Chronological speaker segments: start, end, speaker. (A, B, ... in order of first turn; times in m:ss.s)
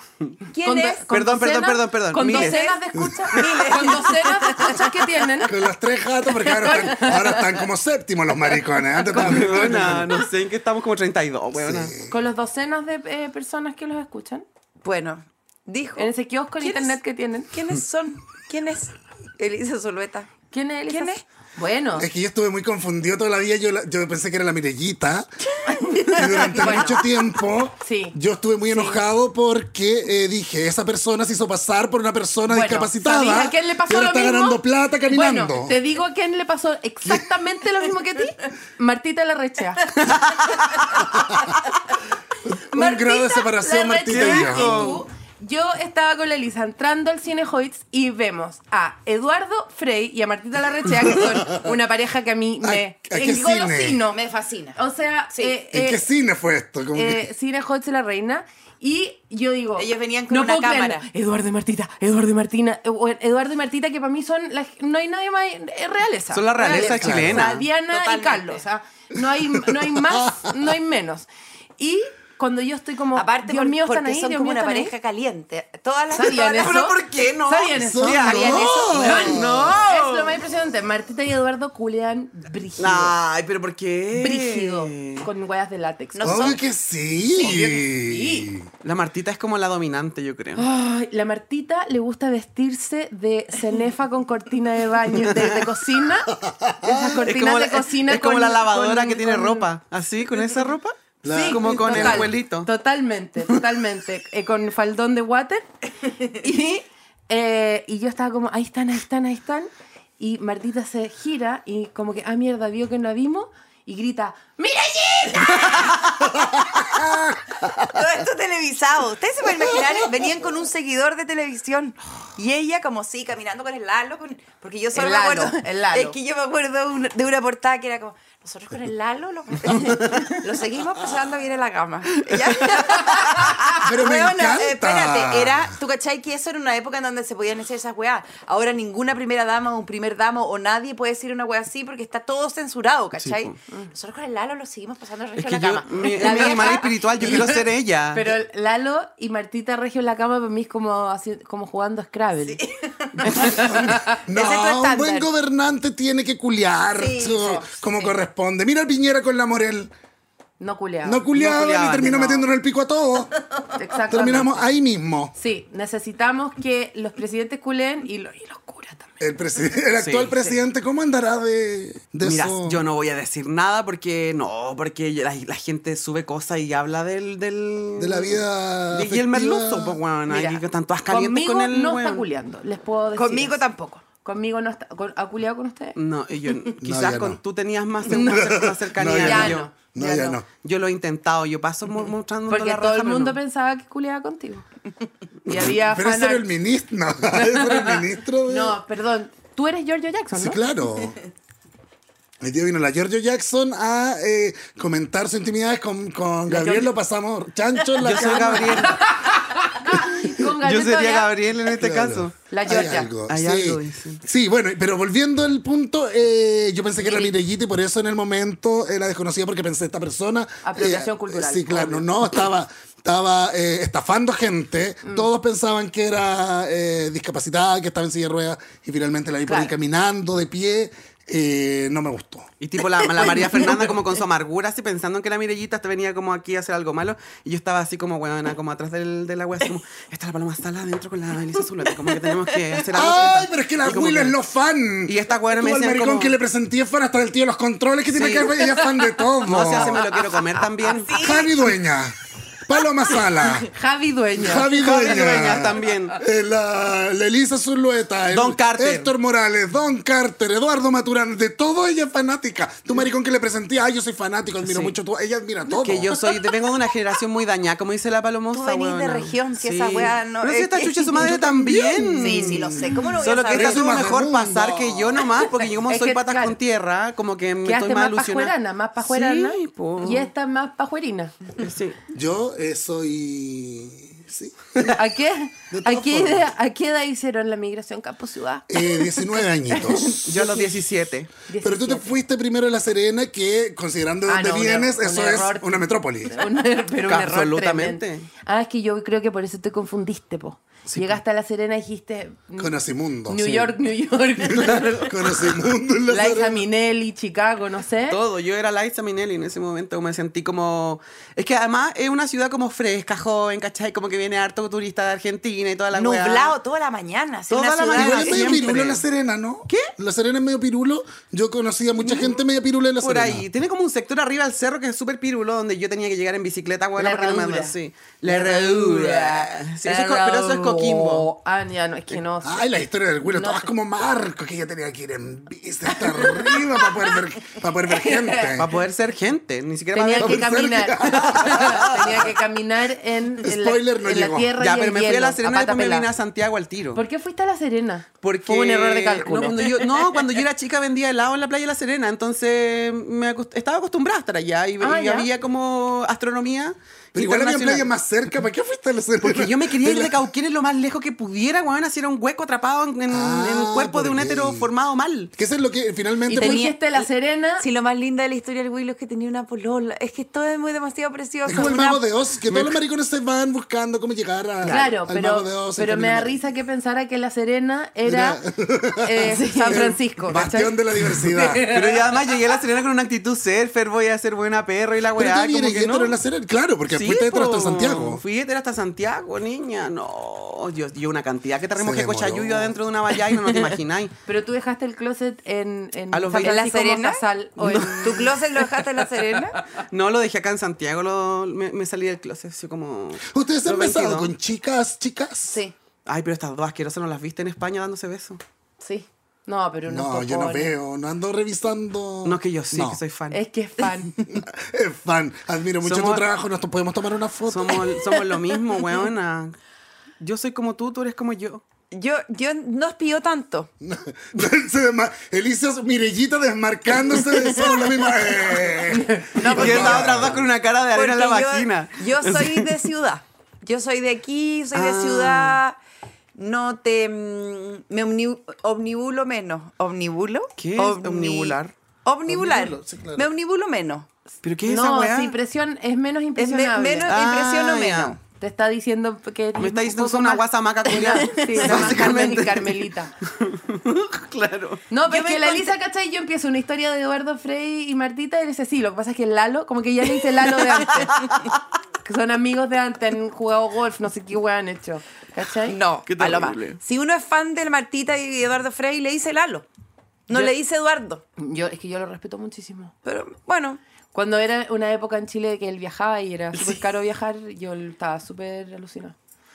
0:00.5-0:01.1 A
0:00.6-0:05.6 B
0:01.1-0:02.6 C
0:02.2-0:05.3 A
0:02.9-0:03.3 D
0:05.4-0:10.2 D
0:06.4-0:07.6 B
0:09.1-0:09.9 B
0:09.1-0:11.9 C
0:11.6-0:12.2 D
0:12.1-0:14.4 B
0:14.8-0:17.0 A
0:16.0-0:17.5 B
0:17.5-0:20.3 A
0:20.5-0:22.1 B
0:20.9-0:21.2 A
0:22.0-0:25.3 D
0:25.6-0:27.1 A
0:25.7-0:27.0 B
0:26.1-0:35.8 D
0:27.8-0:28.2 B
0:28.7-0:29.0 B
0:32.5-0:39.9 B
0:40.0-0:40.9 C
0:41.1-0:41.5 D
0:42.4-0:45.0 D
0:42.7-0:53.7 B
0:44.1-0:45.0 C
0:51.1-0:51.7 D
0:52.6-0:54.0 D
0:53.2-0:54.8 A
0:54.8-0:56.1 B
0:55.7-0:57.3 D
0:56.9-1:11.3 B
0:59.8-1:01.0 A
1:06.3-1:07.6 C
1:06.6-1:08.6 A
1:06.7-1:07.5 D
1:09.5-1:10.5 D
1:11.8-1:14.9 B
1:13.2-1:16.8 A
1:16.1-1:23.2 B
1:16.4-1:20.4 C
1:17.8-1:19.8 D
1:18.4-1:19.4 A
1:22.8-1:25.3 C
1:24.2-1:26.5 B
1:26.2-1:26.6 A
1:26.2-1:28.7 D
1:27.3-1:28.5 B
1:28.8-1:30.6 C
1:30.6-1:39.7 B
1:35.2-1:35.6 C
1:36.4-1:37.2 D
1:37.1-1:41.0 C
1:41.2-1:42.3 D
1:41.3-1:45.7 B
1:41.5-1:42.7 C
1:46.2-1:56.0 B
1:56.3-1:58.1 D
1:57.8-2:27.4 A
1:59.6-2:00.0 D
2:04.9-2:06.2 B
2:12.1-2:13.0 C
2:13.8-2:15.8 D
2:23.2-2:23.5 C
2:25.4-2:28.3 C
2:26.0-2:32.6 B
2:32.5-2:35.3 A
2:33.2-2:39.9 D
2:33.3-2:34.2 B
2:37.0-2:38.1 A
2:37.3-2:37.7 B
2:40.6-2:41.3 B
2:41.0-2:43.3 D
2:41.3-2:42.5 C
2:43.8-2:44.6 B
2:44.1-2:45.3 D
2:45.4-2:49.2 B
2:49.2-2:52.8 D
2:50.0-2:50.4 C
2:52.2-3:02.2 C
2:58.0-3:00.0 D
3:00.3-3:03.6 B
3:03.2-3:04.0 A
3:04.2-3:06.0 B
3:06.0-3:09.7 C
3:06.8-3:07.4 D
3:08.1-3:08.5 B
3:08.1-3:10.5 D
3:09.2-3:10.4 B
3:10.6-3:13.4 C
3:12.5-3:14.7 B
3:15.5-3:16.4 B
3:15.5-3:18.8 D
3:17.4-3:20.6 B
3:20.4-3:21.2 D
3:22.4-3:29.0 D
3:26.5-3:26.9 C
3:28.0-3:29.1 C
3:28.5-3:31.4 B
3:30.0-3:32.4 C
3:31.7-3:52.5 D
3:32.5-3:33.1 B
3:33.3-3:34.2 C
3:37.0-3:37.3 B
3:40.6-3:42.3 B
3:49.5-3:49.7 B
3:52.6-4:04.4 C
4:02.9-4:10.1 D
4:05.1-4:06.4 C
4:08.2-4:08.9 C
4:09.4-4:11.2 C
4:10.8-4:11.5 A
4:11.1-4:13.7 D
4:13.7-4:15.8 B
4:14.3-4:26.5 D
4:14.7-4:16.2 C
4:18.3-4:19.1 C
4:24.6-4:25.0 C
4:25.7-4:40.3 C
4:28.5-4:34.1 A
4:31.9-4:32.7 D
4:33.5-4:35.4 D
4:35.9-4:36.6 B
4:37.6-4:41.3 B
4:41.6-4:42.0 C
4:42.1-4:44.9 D
4:44.9-4:50.8 B
4:45.7-4:46.5 D
4:48.7-4:50.2 D
4:50.2-4:51.3 C
4:51.5-4:52.1 B
4:51.6-4:56.4 D
4:54.3-5:05.4 B
4:57.1-4:58.3 C
5:00.9-5:01.2 C
5:02.6-5:03.8 D
5:04.4-5:06.7 D
5:06.1-5:08.2 B
5:08.1-5:16.6 C
5:15.9-5:18.7 A
5:17.5-5:19.0 C
5:17.9-5:23.4 D
5:22.0-5:22.4 C
5:23.0-5:31.3 C
5:27.0-5:32.7 B
5:32.4-5:38.7 D
5:33.2-5:33.7 B
5:35.9-5:37.2 B
5:37.9-5:38.6 B
5:38.6-5:40.5 C
5:39.9-5:46.1 B
5:40.2-5:42.3 D
5:43.4-5:44.5 D
5:44.6-5:47.0 C
5:47.0-5:50.2 B
5:48.2-5:57.9 C
5:54.8-5:55.3 B
5:57.1-6:00.2 D
5:59.2-6:05.3 C
6:03.1-6:04.7 D
6:05.4-6:06.7 D
6:06.3-6:07.7 B
6:06.3-6:07.1 A
6:07.6-6:12.0 A
6:11.4-6:16.4 D
6:11.5-6:12.0 B
6:12.5-6:12.8 C
6:14.6-6:14.9 C
6:14.7-6:18.4 B
6:18.0-6:21.7 D
6:19.0-6:22.2 B
6:19.5-6:19.8 C
6:21.7-6:26.2 C
6:25.1-6:28.2 D
6:26.9-6:34.2 C
6:31.8-6:32.8 D
6:34.3-6:38.4 B
6:36.1-6:36.6 C
6:36.4-6:39.6 A
6:37.6-6:38.3 C
6:39.8-6:44.3 C
6:43.3-6:45.6 D
6:45.5-6:45.8 A
6:46.1-6:48.4 C
6:48.8-6:50.7 B
6:49.9-6:53.0 D
6:52.2-6:53.4 C
6:53.3-6:54.2 B
6:54.3-6:57.9 D
6:55.8-6:56.2 C
6:57.5-6:59.6 C
7:00.2-7:01.6 C
7:01.9-7:03.7 A
7:03.8-7:10.5 D
7:08.9-7:09.4 B
7:09.4-7:10.4 A
7:09.4-7:12.9 C
7:10.9-7:15.8 A
7:14.7-7:15.6 C
7:16.4-7:24.1 A
7:20.6-7:21.7 C
7:22.3-7:23.3 D
7:24.4-7:25.4 C
7:24.6-7:27.1 B
7:26.4-7:28.2 A
7:27.0-7:28.2 C
7:28.4-7:33.1 B
7:29.6-7:34.8 C
7:31.4-7:31.7 A
7:34.9-7:41.2 B
7:35.1-7:35.7 A
7:42.0-7:45.8 B
7:45.6-7:49.7 A
7:46.1-7:46.8 C
7:50.3-7:51.2 A
7:51.4-7:52.9 B
7:53.0-7:53.8 A
7:54.1-7:59.2 B
7:56.6-7:56.8 C